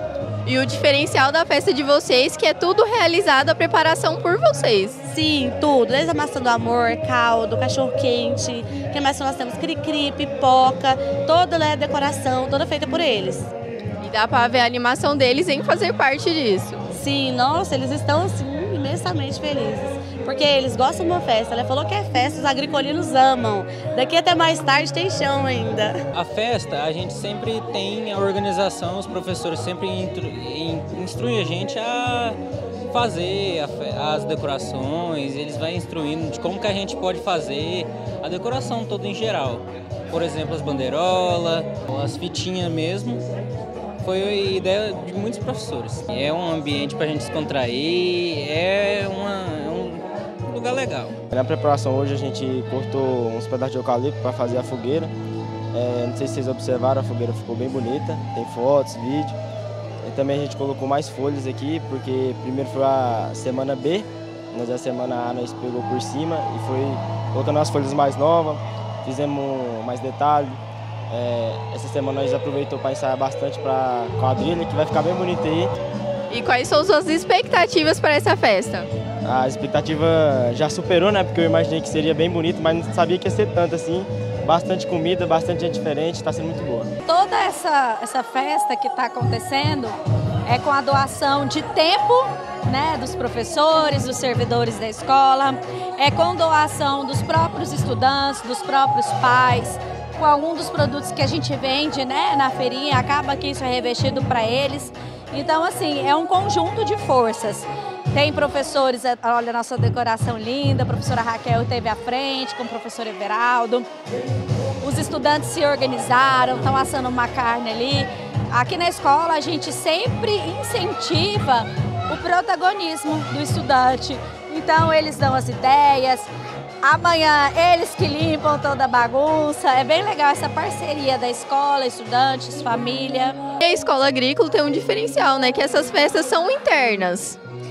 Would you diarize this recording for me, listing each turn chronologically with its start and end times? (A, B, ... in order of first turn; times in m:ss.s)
0:00.4-0:05.0 A
0:05.0-0:13.5 B
0:14.0-0:16.8 A
0:16.9-0:26.0 B
0:26.2-0:43.2 C
0:44.0-0:51.2 C
0:51.3-0:55.1 D
0:55.7-0:59.4 D
1:00.0-1:15.7 D
1:16.3-1:18.9 A
1:19.2-1:26.9 D
1:27.0-1:53.9 E
1:54.8-2:06.3 E
2:06.8-2:13.4 E
2:13.6-2:17.4 A